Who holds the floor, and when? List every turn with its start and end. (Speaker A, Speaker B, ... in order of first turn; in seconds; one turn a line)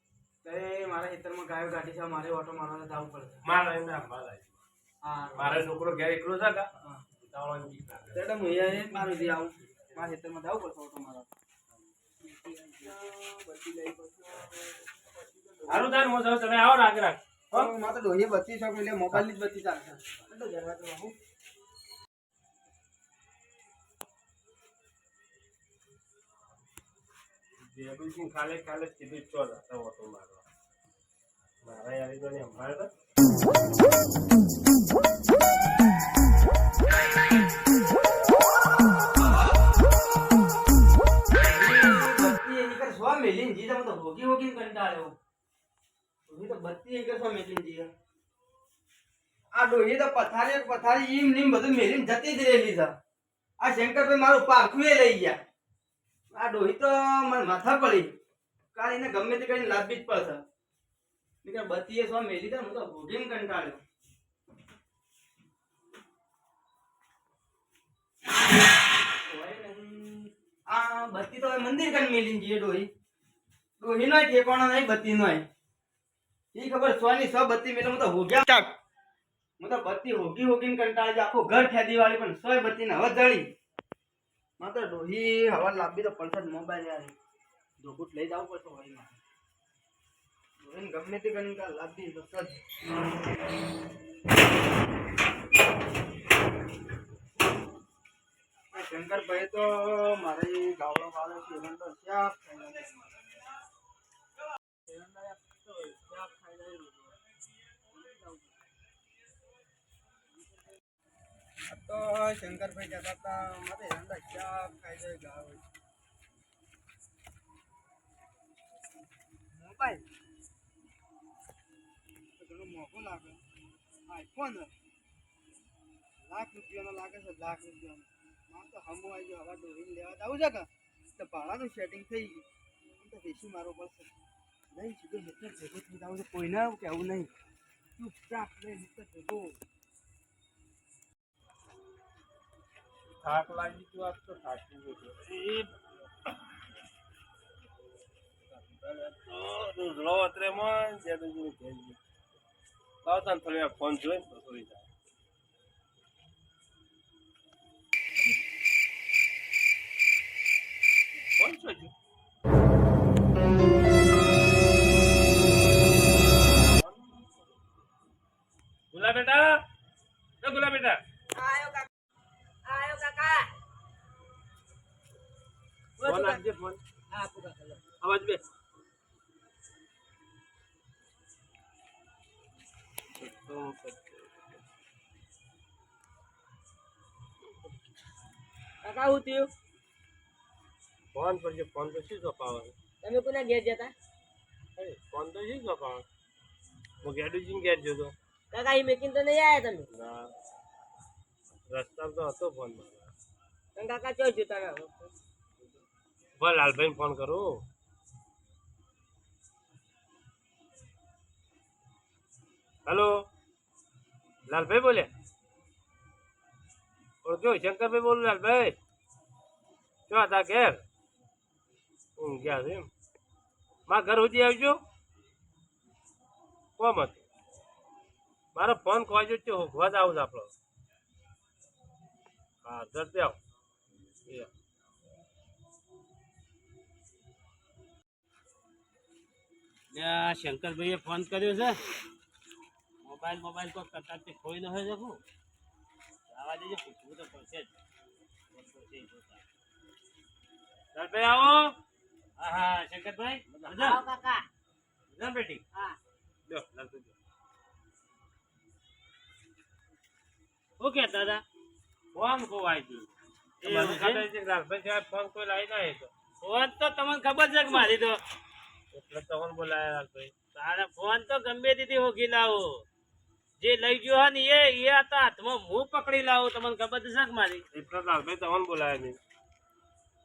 Speaker A: 0.4-3.4
Speaker B: 3.4-4.5
Speaker A: 5.0-5.6
Speaker B: 5.3-8.3
Speaker A: 6.8-7.0
Speaker A: 8.1-11.3
Speaker A: 12.3-15.9
Speaker B: 15.7-17.7
Speaker A: 17.5-21.1
Speaker B: 27.6-30.4
Speaker B: 31.6-32.9
Speaker A: 41.4-45.1
Speaker A: 46.3-47.9
Speaker A: 49.5-52.9
Speaker A: 53.6-55.4
Speaker A: 56.3-58.1
Speaker A: 58.7-60.4
Speaker A: 61.4-63.8
Speaker A: 69.2-72.9
Speaker A: 73.8-75.4
Speaker A: 76.5-78.7
Speaker A: 79.6-83.5
Speaker A: 84.6-87.1
Speaker A: 87.8-89.2
Speaker A: 90.6-92.6
Speaker A: 98.7-102.9
Speaker A: 104.9-107.1
Speaker A: 108.0-108.4
Speaker A: 111.7-115.6
Speaker A: 119.5-120.0
Speaker A: 122.4-123.4
Speaker A: 124.1-124.7
Speaker A: 126.3-132.4
Speaker A: 133.0-134.1
Speaker A: 134.7-137.3
Speaker A: 138.0-139.6
Speaker B: 143.2-145.7
Speaker B: 148.7-152.0
Speaker B: 153.0-154.8
Speaker B: 161.4-161.9
Speaker B: 166.7-167.1
Speaker B: 168.9-169.6
Speaker B: 170.4-171.0
Speaker C: 171.3-171.9
Speaker C: 172.7-173.5
Speaker C: 176.0-176.4
Speaker B: 176.0-176.8
Speaker C: 177.1-177.8
Speaker B: 178.0-178.4
Speaker B: 183.2-184.2
Speaker C: 188.8-189.5
Speaker B: 191.1-192.7
Speaker C: 193.0-193.9
Speaker B: 194.8-196.0
Speaker B: 197.0-198.1
Speaker C: 198.5-199.9
Speaker B: 199.9-200.3
Speaker B: 201.7-203.1
Speaker C: 203.8-205.1
Speaker B: 206.4-207.6
Speaker B: 212.8-213.3
Speaker B: 214.5-215.1
Speaker B: 217.2-218.8
Speaker B: 220.1-220.8
Speaker B: 222.2-222.9
Speaker B: 223.9-224.8
Speaker B: 226.8-227.2
Speaker B: 228.5-230.5
Speaker B: 232.6-233.4
Speaker D: 239.9-241.8
Speaker D: 243.0-245.2
Speaker D: 246.3-247.7
Speaker D: 248.5-249.4
Speaker B: 250.9-251.7
Speaker D: 252.4-254.0
Speaker C: 253.7-254.4
Speaker D: 255.1-255.6
Speaker B: 256.5-257.1
Speaker D: 260.8-261.4
Speaker B: 262.1-263.1
Speaker D: 263.6-264.2
Speaker B: 263.6-266.1
Speaker D: 266.4-268.2
Speaker B: 268.9-270.3
Speaker D: 270.5-272.8
Speaker D: 273.6-277.6
Speaker B: 277.7-279.2